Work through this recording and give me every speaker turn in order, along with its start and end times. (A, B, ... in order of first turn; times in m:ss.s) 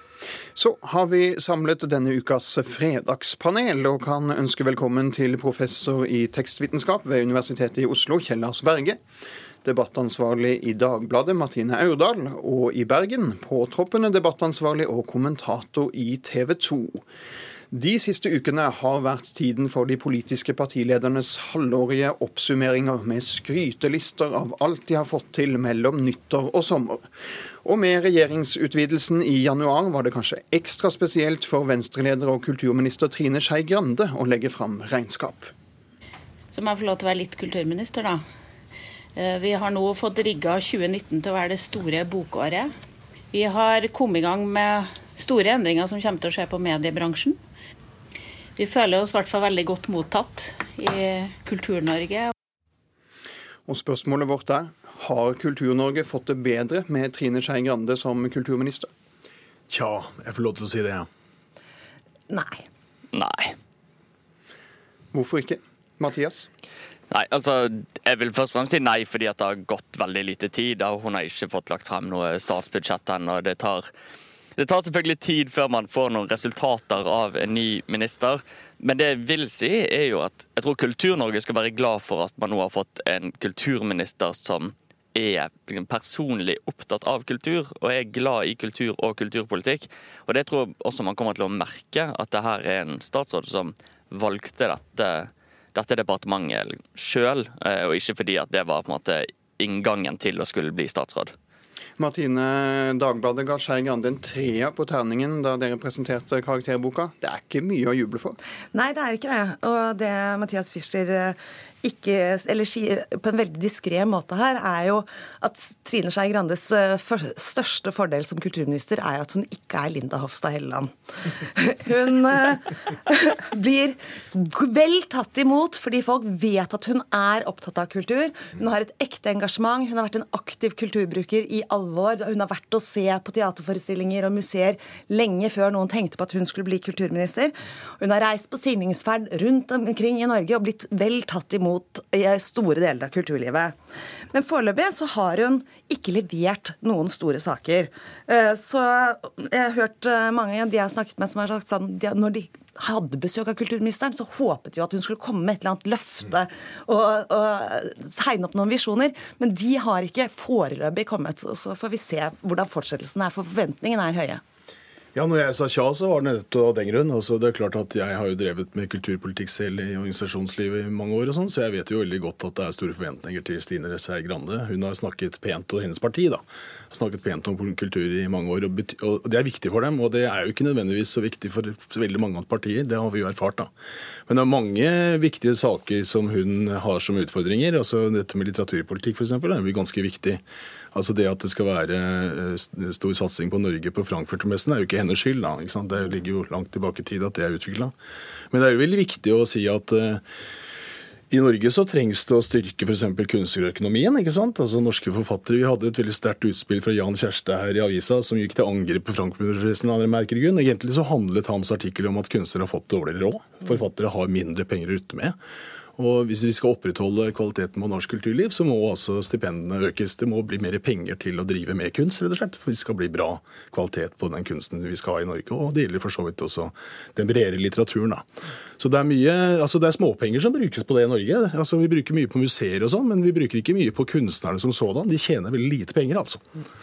0:00.6-0:09.0 A
0:09.6-0:17.0 A
0:17.7-0:27.1 A
0:27.6-0:35.5 A
0:36.5-0:38.2 B
0:39.2-0:42.7 B
0:43.3-0:47.4 B
0:48.6-0:52.3 B
0:53.7-0:58.9 A
0:59.7-1:01.1 C
1:02.3-1:02.6 D
1:03.1-1:03.6 E
1:05.1-1:06.5 A
1:07.1-1:13.8 E
1:14.6-1:41.3 E
1:42.0-1:48.4 A
1:48.7-2:23.7 D
2:24.3-2:44.4 D
2:45.2-3:03.7 C
3:04.3-3:10.4 C
3:10.9-3:17.9 C
3:18.5-3:20.2 C
3:21.3-3:35.4 C
3:36.0-3:48.2 C
3:48.8-3:56.4 C